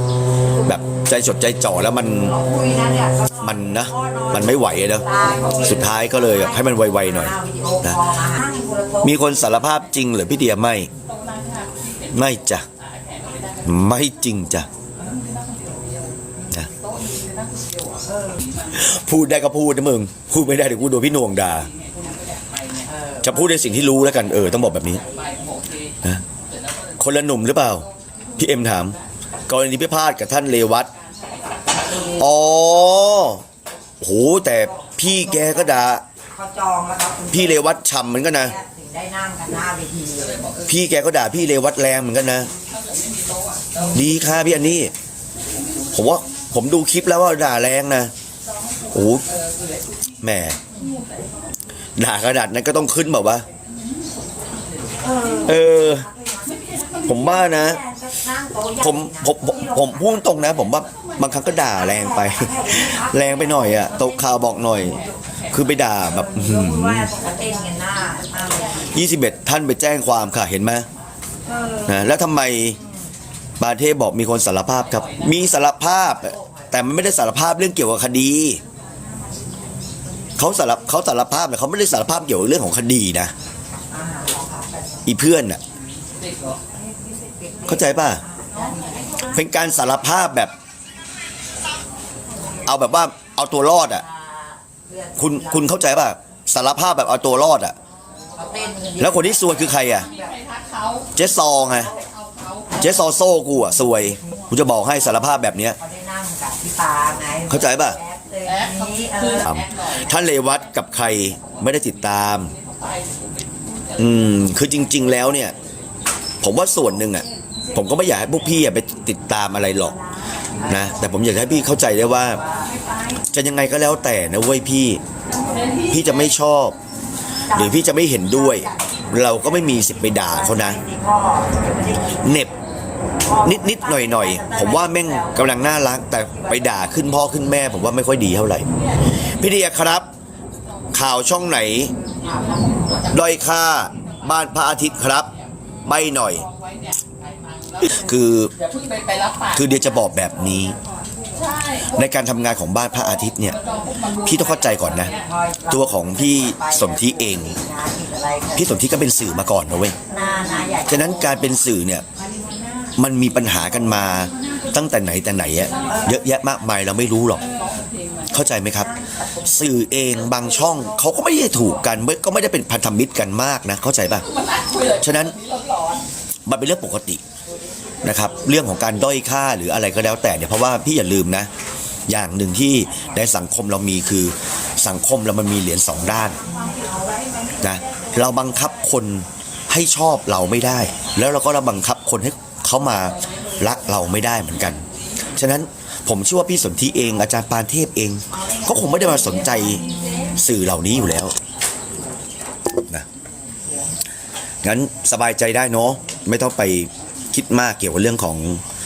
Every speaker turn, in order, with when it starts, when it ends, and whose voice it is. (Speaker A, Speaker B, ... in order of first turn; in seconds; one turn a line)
Speaker A: 0.6-2.3
Speaker B: 2.3-9.3
Speaker A: 3.4-5.1
Speaker C: 5.2-5.5
Speaker A: 5.6-8.2
Speaker A: 9.0-10.9
Speaker C: 11.0-13.9
Speaker A: 12.1-12.7
Speaker A: 13.6-14.7
Speaker C: 14.9-19.0
Speaker B: 18.1-18.4
Speaker A: 18.7-21.7
Speaker C: 20.8-22.9
Speaker B: 22.9-23.9
Speaker A: 23.2-25.0
Speaker B: 24.8-25.3
Speaker C: 25.0-27.1
Speaker A: 27.0-30.9
Speaker C: 27.8-29.1
Speaker C: 30.9-31.9
Speaker A: 31.9-33.4
Speaker A: 34.0-36.0
Speaker B: 34.7-35.8
Speaker B: 36.3-37.7
Speaker A: 37.3-38.5
Speaker B: 38.4-40.4
Speaker C: 40.2-40.8
Speaker A: 40.6-42.5
Speaker C: 42.5-44.0
Speaker A: 43.9-44.9
Speaker C: 45.5-46.4
Speaker A: 45.9-48.1
Speaker C: 48.5-50.0
Speaker A: 48.9-49.3
Speaker A: 50.2-50.6
Speaker C: 50.6-51.5
Speaker A: 52.0-53.5
Speaker C: 53.6-55.4
Speaker B: 55.0-60.2
Speaker A: 55.4-56.0
Speaker C: 56.4-57.3
Speaker A: 57.0-57.8
Speaker A: 58.8-65.0
Speaker C: 60.4-61.8
Speaker B: 61.7-64.0
Speaker C: 64.0-66.0
Speaker A: 65.5-67.1
Speaker B: 66.0-68.8
Speaker C: 67.2-69.3
Speaker A: 68.8-70.9
Speaker B: 71.5-72.0
Speaker A: 71.8-72.8
Speaker A: 73.6-78.6
Speaker C: 74.8-75.5
Speaker B: 75.9-76.7
Speaker A: 80.4-83.3
Speaker B: 83.9-85.1
Speaker A: 85.0-85.6
Speaker C: 86.2-86.6
Speaker B: 86.7-89.4
Speaker A: 87.6-88.2
Speaker C: 88.5-89.2
Speaker A: 89.1-90.5
Speaker A: 92.6-94.0
Speaker B: 94.0-95.8
Speaker A: 95.2-97.8
Speaker B: 98.3-100.3
Speaker C: 98.4-98.9
Speaker A: 99.0-100.1
Speaker C: 99.4-101.1
Speaker A: 101.1-101.9
Speaker C: 101.9-102.8
Speaker A: 102.8-105.8
Speaker B: 103.7-104.5
Speaker B: 105.8-109.5
Speaker A: 107.5-108.0
Speaker C: 108.5-115.7
Speaker A: 109.4-112.5
Speaker A: 114.0-115.5
Speaker A: 116.4-120.0
Speaker B: 119.8-121.5
Speaker A: 120.6-122.4
Speaker B: 122.4-122.7
Speaker C: 122.5-122.9
Speaker A: 123.2-125.0
Speaker C: 125.3-126.3
Speaker A: 125.8-126.8
Speaker A: 127.5-130.8
Speaker B: 127.5-132.5
Speaker A: 132.0-132.5
Speaker B: 133.2-135.6
Speaker A: 133.4-140.1
Speaker B: 136.3-136.7
Speaker C: 138.7-139.2
Speaker C: 140.6-141.1
Speaker A: 140.9-141.9
Speaker C: 142.0-145.5
Speaker A: 143.1-145.3
Speaker A: 145.8-146.4
Speaker C: 146.1-150.0
Speaker A: 147.8-148.5
Speaker A: 149.5-150.8
Speaker C: 151.3-152.0
Speaker A: 151.8-155.1
Speaker C: 153.3-155.3
Speaker B: 155.1-159.0
Speaker A: 155.7-157.6
Speaker A: 158.6-160.0
Speaker B: 160.1-161.4
Speaker C: 160.1-160.9
Speaker A: 160.8-162.1
Speaker B: 162.3-162.8
Speaker A: 162.9-167.5
Speaker C: 165.7-166.1
Speaker B: 165.8-166.2
Speaker C: 167.4-168.4
Speaker A: 168.3-174.3
Speaker B: 168.6-169.5
Speaker B: 170.3-171.4
Speaker C: 174.2-176.1
Speaker A: 175.0-175.4
Speaker A: 176.4-177.2
Speaker B: 177.9-178.3
Speaker A: 178.0-181.5
Speaker A: 182.1-186.4
Speaker B: 186.3-187.6
Speaker C: 187.4-188.7
Speaker A: 187.6-201.3
Speaker C: 193.0-195.0
Speaker B: 198.3-200.3
Speaker C: 199.5-200.3
Speaker A: 204.6-208.6